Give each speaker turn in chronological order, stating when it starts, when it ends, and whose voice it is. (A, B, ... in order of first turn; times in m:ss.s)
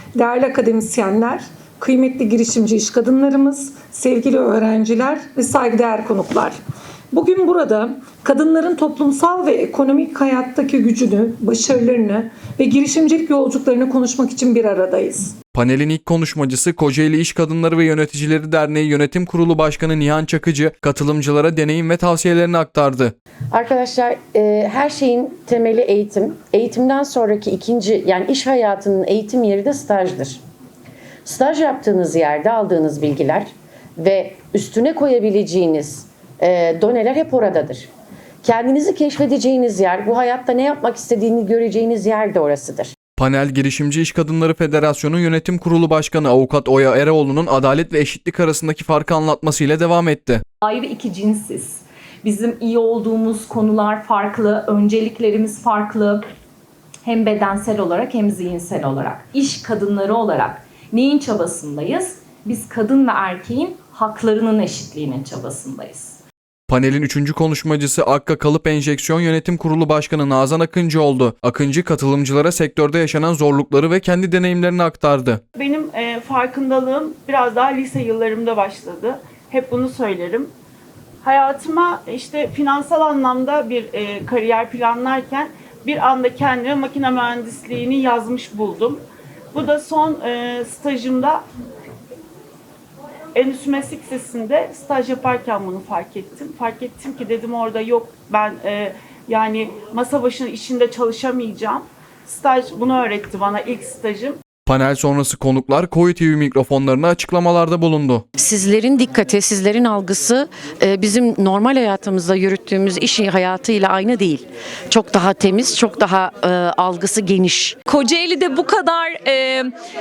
0:00.2-0:06.6 A
0:07.1-0:15.3 A
0:15.5-0:23.1 B
0:23.5-0:30.4 C
0:31.2-0:37.9 C
0:38.4-0:42.9 C
0:43.2-0:50.4 B
0:50.6-0:56.2 D
0:57.0-1:06.2 D
1:06.7-1:15.4 B
1:15.6-1:20.5 E
1:21.2-1:29.0 E
1:29.5-1:31.4 E
1:33.3-1:44.4 E
1:44.6-1:48.2 B
1:48.4-1:57.8 C
1:57.9-1:59.7 D